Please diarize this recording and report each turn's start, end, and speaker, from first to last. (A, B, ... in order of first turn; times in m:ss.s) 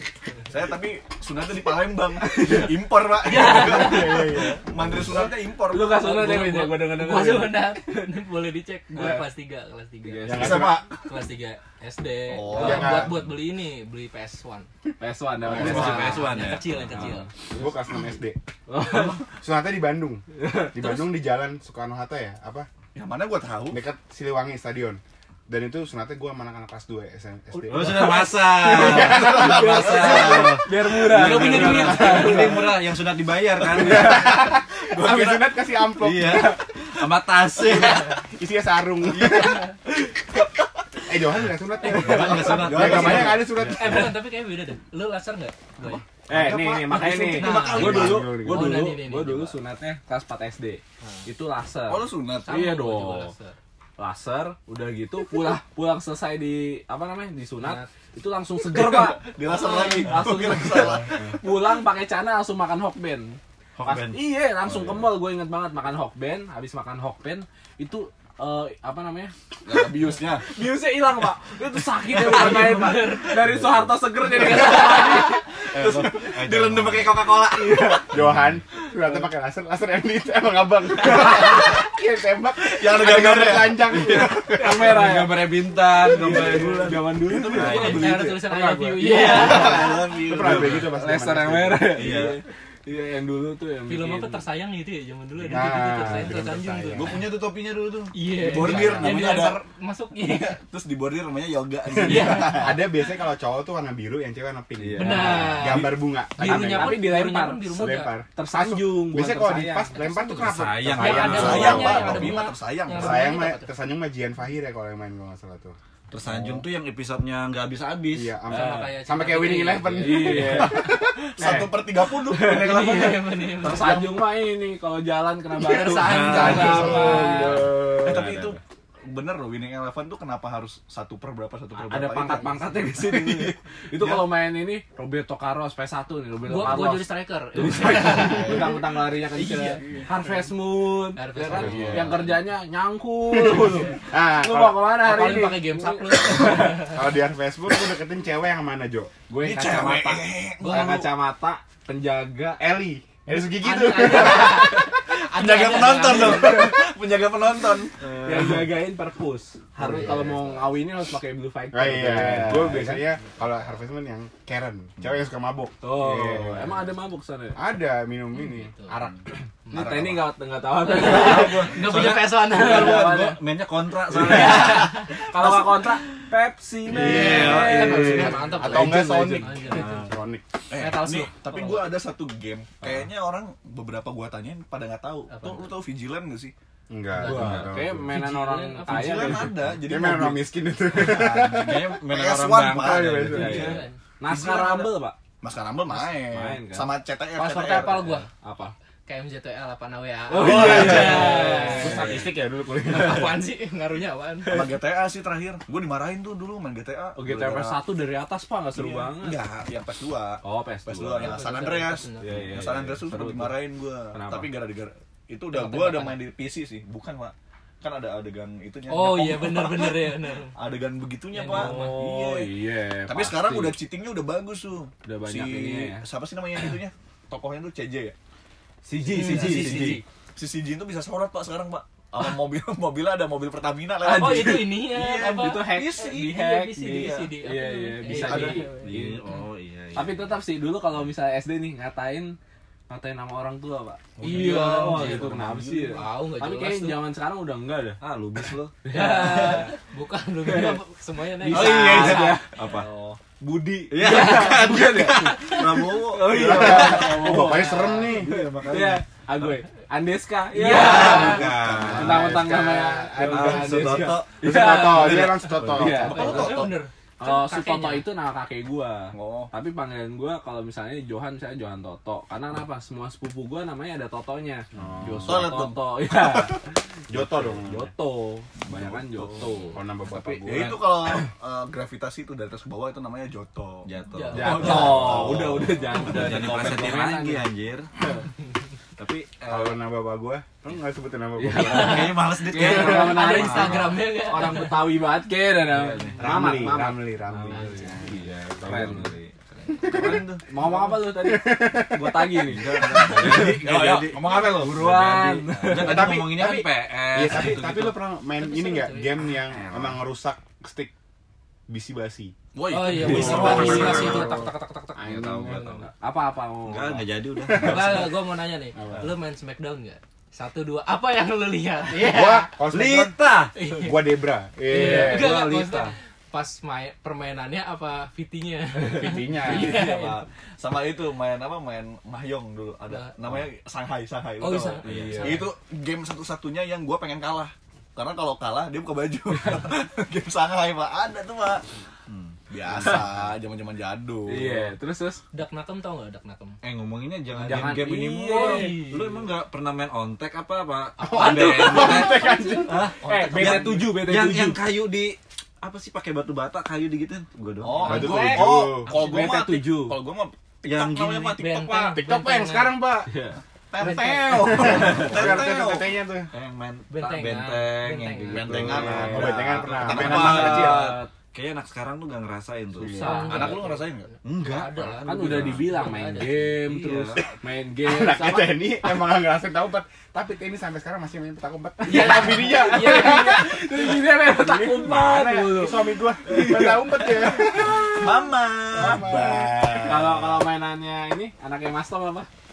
0:00.5-0:06.1 A
0:02.2-0:02.7 B
0:03.2-0:04.3 C
0:03.4-0:05.3 D
0:05.7-0:08.0 B
0:05.9-0:10.5 C
0:08.9-0:09.2 B
0:10.0-0:10.7 B
0:10.2-0:10.8 D
0:10.3-0:11.0 A
0:11.0-0:14.7 C
0:12.2-0:13.1 A
0:12.5-0:12.8 B
0:12.6-0:13.2 D
0:15.0-0:16.4 B
0:15.5-0:16.0 D
0:15.5-0:17.0 E
0:15.7-0:17.3 C
0:16.9-0:17.6 B
0:17.6-0:18.4 D
0:18.7-0:19.2 B
0:19.0-0:22.7 D
0:20.3-0:21.1 B
0:22.9-0:23.8 A
0:23.7-0:30.2 D
0:27.7-0:32.7 B
0:27.7-0:34.4 E
0:28.9-0:30.6 A
0:31.1-0:32.5 C
0:31.6-0:31.8 A
0:33.7-0:36.6 D
0:34.9-0:35.4 A
0:35.9-0:38.1 E
0:38.0-0:39.7 D
0:41.0-0:44.2 D
0:41.9-0:43.8 E
0:42.0-0:43.5 A
0:43.7-0:46.0 C
0:46.3-0:53.3 B
0:46.3-0:48.9 D
0:46.9-0:49.6 C
0:47.2-0:48.2 A
0:51.0-0:51.3 C
0:51.9-0:52.6 A
0:52.4-0:53.6 C
0:54.0-1:09.9 B
0:57.6-0:57.9 C
0:58.6-1:01.2 A
0:59.5-1:00.1 C
1:03.8-1:05.1 E
1:09.6-1:10.5 A
1:10.4-1:15.4 B
1:12.0-1:13.5 C
1:12.3-1:12.9 A
1:14.3-1:15.3 C
1:15.7-1:18.0 A
1:16.2-1:18.3 E
1:17.5-1:18.1 B
1:18.1-1:24.5 D
1:22.6-1:25.0 A
1:23.8-1:28.3 E
1:24.5-1:29.9 B
1:25.9-1:28.4 A
1:27.7-1:30.2 C
1:28.5-1:32.2 D
1:29.0-1:30.9 A
1:30.4-1:30.9 E
1:30.6-1:34.4 B
1:31.9-1:32.4 E
1:33.9-1:37.2 C
1:35.4-1:37.2 D
1:36.9-1:39.6 A
1:38.1-1:40.6 C
1:38.4-1:39.2 D
1:40.2-1:42.8 A
1:41.9-1:47.1 D
1:42.0-1:42.7 C
1:44.9-1:45.6 E
1:45.0-1:48.1 C
1:46.4-1:50.4 B
1:47.7-1:55.8 D
1:50.4-1:52.1 E
1:50.9-1:53.7 C
1:51.0-1:53.3 A
1:56.1-1:58.4 E
1:58.1-2:01.7 D
1:58.5-2:00.5 C
1:58.5-1:58.9 B
1:59.8-2:07.7 B
2:01.3-2:03.3 A
2:02.4-2:04.2 C
2:05.5-2:07.7 C
2:05.9-2:06.9 E
2:06.3-2:08.3 D
2:08.0-2:14.3 A
2:08.0-2:08.6 E
2:11.8-2:26.8 B
2:16.4-2:19.8 C
2:19.8-2:20.1 A
2:21.1-2:22.3 C
2:21.5-2:22.1 A
2:21.6-2:22.2 D
2:23.3-2:24.9 D
2:24.9-2:27.1 C
2:26.6-2:29.1 D
2:29.3-2:32.6 B
2:29.4-2:31.1 A
2:30.6-2:31.0 C
2:32.6-2:34.8 D
2:33.4-2:36.7 C
2:34.7-2:38.6 A
2:38.2-2:43.1 B
2:39.8-2:40.6 D
2:41.7-2:46.9 D
2:45.8-2:47.6 B
2:47.5-2:49.2 D
2:48.5-2:48.9 C
2:49.7-2:52.0 B
2:49.7-2:50.2 A
2:50.8-2:53.4 C
2:51.0-2:55.1 E
2:52.5-2:53.4 B
2:54.1-2:55.1 C
2:54.1-2:59.5 B
2:56.9-2:58.4 E
2:56.9-3:00.0 C
2:58.1-3:00.4 D
2:59.8-3:00.1 E
3:00.7-3:06.5 A
3:00.7-3:01.9 C
3:05.3-3:05.7 C
3:06.9-3:08.1 D
3:07.1-3:09.5 C
3:07.2-3:09.6 B
3:08.8-3:18.2 A
3:09.8-3:11.9 D
3:11.4-3:13.5 E
3:12.7-3:13.7 D
3:13.3-3:15.2 B
3:13.5-3:14.0 C
3:16.3-3:16.9 B
3:17.3-3:18.3 C
3:18.3-3:18.7 B
3:19.0-3:22.1 C
3:20.3-3:22.1 B
3:20.4-3:23.3 D
3:20.4-3:21.4 A
3:22.0-3:22.3 E
3:22.8-3:24.7 C
3:24.4-3:27.8 A
3:27.2-3:29.4 B
3:28.7-3:42.5 A
3:30.4-3:31.4 B
3:31.2-3:32.4 C
3:32.2-3:34.5 B
3:35.5-3:36.2 C
3:38.9-3:40.6 C
3:41.3-3:42.1 C
3:41.4-3:43.8 B
3:43.0-3:48.2 A
3:45.0-3:46.0 B
3:48.8-3:50.0 B
3:49.1-3:50.0 C
3:49.1-3:57.3 A
3:54.0-3:59.2 B
3:54.1-3:59.4 C
3:58.0-3:58.7 A
3:58.6-4:00.3 E
3:59.9-4:02.4 B
4:02.9-4:08.0 B
4:04.2-4:06.0 A
4:04.2-4:05.0 E
4:04.2-4:05.4 C
4:05.9-4:07.0 C
4:08.0-4:08.8 E
4:08.8-4:09.7 B
4:08.9-4:12.4 C
4:10.4-4:10.8 B
4:11.4-4:12.6 B
4:11.5-4:12.9 E
4:11.6-4:12.1 A
4:12.6-4:13.2 A
4:13.4-4:26.6 B
4:13.9-4:19.0 E
4:16.3-4:18.4 D
4:17.5-4:17.9 C
4:20.5-4:21.4 C
4:20.7-4:22.2 E
4:20.8-4:22.4 A
4:20.9-4:26.4 D
4:23.2-4:26.1 E
4:25.8-4:26.8 A
4:26.0-4:28.0 C
4:27.2-4:39.8 B
4:29.1-4:29.5 A
4:34.7-4:35.5 D
4:34.8-4:35.3 E
4:35.2-4:36.6 A
4:37.1-4:37.9 D
4:38.7-4:39.5 A
4:39.7-4:40.8 D
4:40.1-4:45.8 A
4:43.8-4:47.9 E
4:44.1-4:45.0 C
4:44.3-4:47.5 B
4:44.6-4:45.3 D
4:49.0-4:49.8 E
4:49.5-4:52.2 D
4:51.4-4:59.2 B
4:51.5-4:54.0 E
4:51.5-4:54.9 C
4:55.8-4:56.3 E
4:56.2-4:59.1 D
4:57.5-4:58.1 C
4:58.1-4:59.3 E
4:59.8-5:03.4 D
4:59.8-5:00.4 A
4:59.9-5:03.6 B
5:02.5-5:08.0 E
5:03.0-5:04.9 A
5:04.6-5:06.2 B
5:05.6-5:10.9 D
5:08.3-5:09.3 C
5:09.5-5:10.0 E
5:11.7-5:12.3 D
5:12.5-5:14.4 A
5:12.7-5:15.6 C
5:13.0-5:14.4 E
5:13.0-5:13.6 B
5:15.0-5:15.9 E
5:15.5-5:17.1 B
5:16.6-5:18.2 E
5:17.4-5:18.0 D
5:17.5-5:22.5 C
5:18.8-5:19.1 D
5:21.9-5:23.2 D
5:22.6-5:23.6 E
5:23.5-5:24.1 C
5:23.8-5:25.4 D
5:24.7-5:30.2 C
5:24.9-5:25.9 E
5:28.9-5:29.8 D
5:29.4-5:41.7 A
5:32.9-5:33.1 C
5:34.4-5:35.5 C
5:34.8-5:35.4 E
5:34.8-5:35.4 B
5:42.1-5:43.0 E
5:42.5-5:44.7 A
5:44.2-5:45.2 B
5:45.3-5:46.6 C
5:46.6-5:58.2 E
5:47.4-5:48.9 B
5:48.3-5:49.1 C
5:51.0-5:52.7 C
5:51.1-5:52.9 D
5:53.0-5:53.9 A
5:53.0-5:54.6 B
5:57.6-6:02.0 A
5:57.8-5:58.9 D
5:57.8-6:00.0 B
5:58.9-5:59.2 C
6:00.6-6:01.4 E
6:01.4-6:02.8 C
6:01.9-6:03.1 D
6:03.1-6:03.4 B
6:03.7-6:05.9 A
6:03.8-6:04.7 C
6:04.3-6:06.3 D
6:04.8-6:05.5 E
6:06.3-6:09.3 E
6:06.9-6:08.8 C
6:08.3-6:11.0 A
6:08.5-6:11.1 B
6:08.7-6:11.0 D
6:09.8-6:13.0 E
6:12.8-6:13.4 D
6:12.9-6:16.6 C
6:12.9-6:13.6 B
6:13.0-6:14.1 A
6:14.2-6:15.6 E
6:15.0-6:19.0 B
6:16.6-6:17.2 E
6:17.8-6:28.1 D
6:21.8-6:27.5 B
6:21.8-6:23.5 C
6:27.7-6:30.0 A
6:28.7-6:30.3 D
6:29.8-6:32.3 B